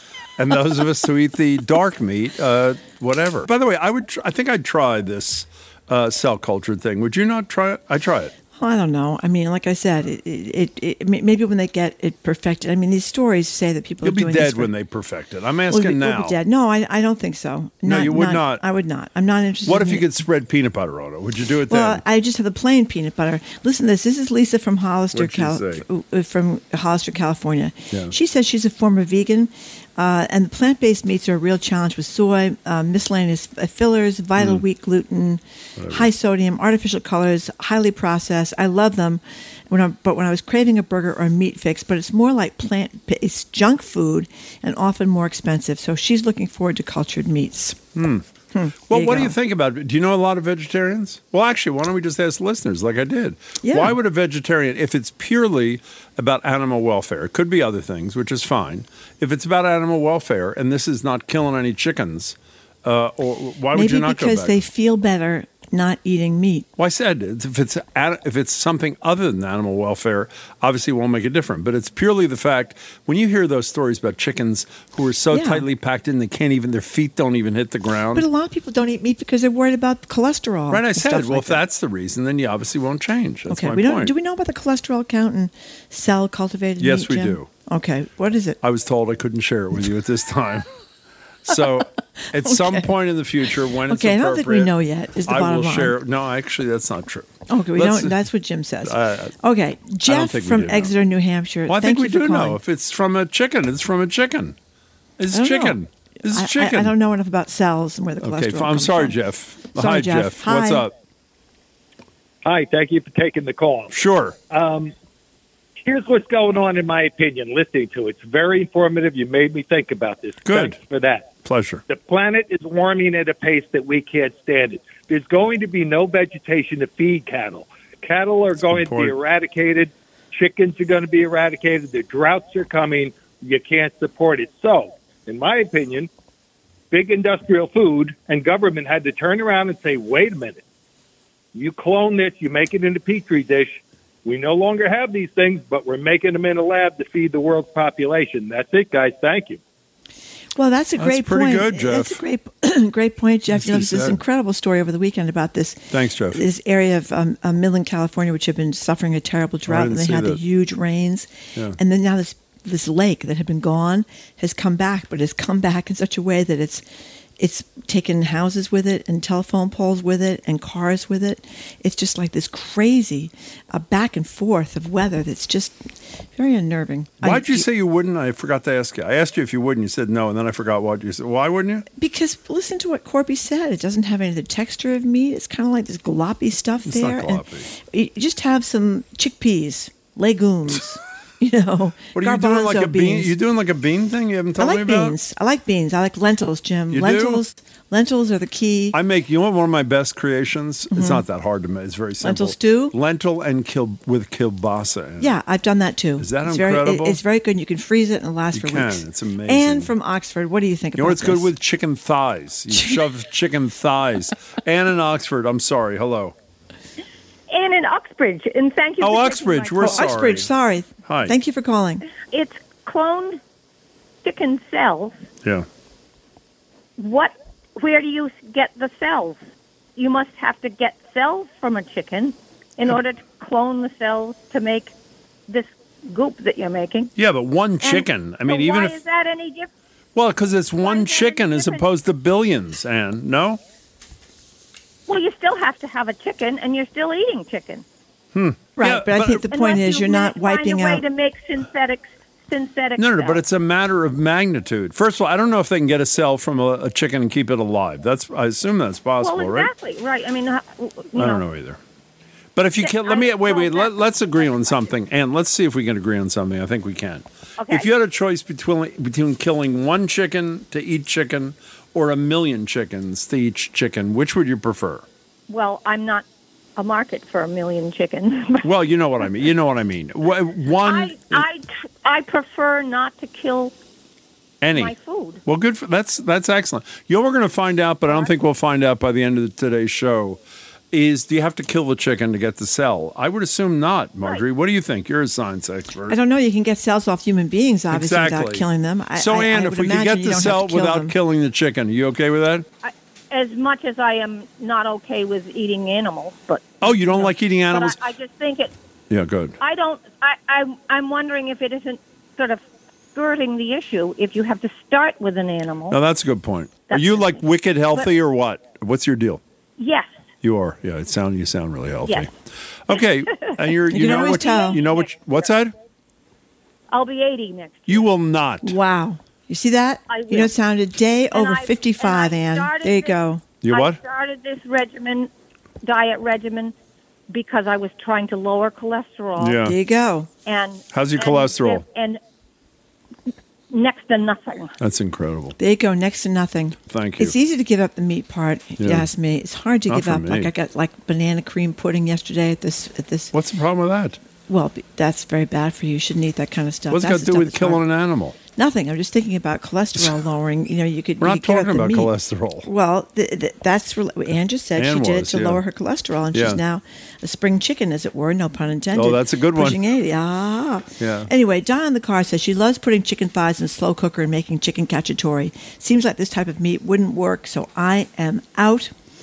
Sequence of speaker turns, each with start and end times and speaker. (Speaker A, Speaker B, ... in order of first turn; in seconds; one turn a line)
Speaker A: 0.4-8.3
Speaker B: 8.6-14.7
Speaker A: 14.0-16.4
Speaker B: 15.7-20.1
Speaker A: 17.8-18.6
Speaker A: 19.6-22.0
Speaker B: 21.7-47.8
Speaker A: 25.1-25.9
Speaker A: 34.4-34.6
Speaker A: 35.8-36.1
Speaker A: 47.9-48.2
Speaker B: 48.5-49.3
Speaker A: 48.9-64.6
Speaker B: 53.6-53.9
Speaker B: 63.7-66.7
Speaker A: 66.8-78.2
Speaker B: 75.3-75.6
Speaker B: 78.1-81.6
Speaker A: 80.7-84.1
Speaker B: 83.5-88.6
Speaker A: 86.8-87.5
Speaker A: 88.6-90.7
Speaker A: 91.5-94.7
Speaker B: 92.2-92.9
Speaker B: 93.9-96.0
Speaker A: 95.2-98.2
Speaker B: 97.5-102.6
Speaker A: 98.8-99.3
Speaker A: 100.0-100.9
Speaker A: 101.7-104.5
Speaker A: 105.2-106.9
Speaker B: 105.3-109.2
Speaker A: 108.2-110.9
Speaker B: 109.7-110.9
Speaker C: 112.4-114.0
Speaker A: 113.9-114.3
Speaker C: 114.5-114.9
Speaker C: 115.8-121.3
Speaker A: 120.4-120.8
Speaker A: 121.4-121.8
Speaker C: 121.9-136.1
Speaker A: 128.5-129.2
Speaker C: 136.9-140.6
Speaker C: 141.5-149.6
Speaker B: 150.6-166.8
Speaker A: 151.0-152.2
Speaker A: 153.5-154.2
Speaker A: 155.9-156.4
Speaker A: 159.7-160.4
Speaker B: 167.4-177.7
Speaker A: 177.2-181.8
Speaker B: 181.9-193.3
Speaker A: 186.8-187.7
Speaker A: 192.1-195.2
Speaker B: 194.6-199.0
Speaker A: 196.9-197.4
Speaker A: 198.9-205.3
Speaker B: 200.9-201.2
Speaker B: 202.2-202.9
Speaker B: 205.2-211.5
Speaker A: 206.2-207.2
Speaker A: 208.5-209.9
Speaker A: 210.9-216.3
Speaker B: 212.7-213.1
Speaker D: 217.5-220.1
Speaker A: 219.0-220.5
Speaker B: 219.8-222.1
Speaker A: 221.0-221.3
Speaker D: 222.3-223.4
Speaker D: 224.2-225.2
Speaker D: 227.0-229.4
Speaker D: 229.9-234.9
Speaker D: 235.5-237.1
Speaker A: 237.2-239.0
Speaker D: 237.8-239.7
Speaker A: 240.1-243.6
Speaker D: 240.8-241.8
Speaker D: 245.1-247.8
Speaker A: 248.3-249.4
Speaker B: 248.8-251.0
Speaker D: 249.5-253.4
Speaker A: 253.0-259.7
Speaker D: 259.2-261.4
Speaker A: 261.1-261.8
Speaker A: 262.6-275.1
Speaker D: 262.8-264.9
Speaker D: 267.6-267.9
Speaker D: 275.5-276.2
Speaker D: 276.8-278.7
Speaker A: 278.6-281.4
Speaker D: 280.8-283.7
Speaker A: 284.6-284.9
Speaker D: 284.7-285.4
Speaker A: 285.4-290.4
Speaker A: 290.9-296.2
Speaker B: 296.1-301.1
Speaker A: 297.9-302.6
Speaker D: 302.8-308.7
Speaker A: 306.8-308.0
Speaker A: 309.1-309.6
Speaker D: 309.6-312.6
Speaker D: 313.1-316.0
Speaker A: 315.9-319.4
Speaker D: 316.9-317.4
Speaker D: 319.8-320.1
Speaker A: 320.4-322.3
Speaker A: 322.9-325.7
Speaker D: 323.3-325.3
Speaker B: 323.9-324.8
Speaker D: 326.9-328.1
Speaker A: 327.9-328.8
Speaker B: 328.6-333.4
Speaker D: 330.1-330.5
Speaker D: 331.3-335.3
Speaker A: 333.6-334.0
Speaker D: 335.8-336.7
Speaker D: 337.3-339.7
Speaker A: 339.4-339.7
Speaker B: 339.6-340.3
Speaker D: 340.4-342.2
Speaker A: 340.9-341.8
Speaker D: 343.7-344.7
Speaker A: 344.8-345.6
Speaker B: 345.6-353.3
Speaker A: 346.9-347.3
Speaker A: 348.8-349.1
Speaker A: 349.9-350.5
Speaker A: 353.3-354.2
Speaker B: 354.5-357.8
Speaker A: 356.9-358.4
Speaker B: 358.6-362.1
Speaker A: 361.2-362.7
Speaker B: 362.6-378.9
Speaker A: 364.8-365.6
Speaker A: 366.3-366.6
Speaker A: 368.9-369.8
Speaker A: 371.0-371.3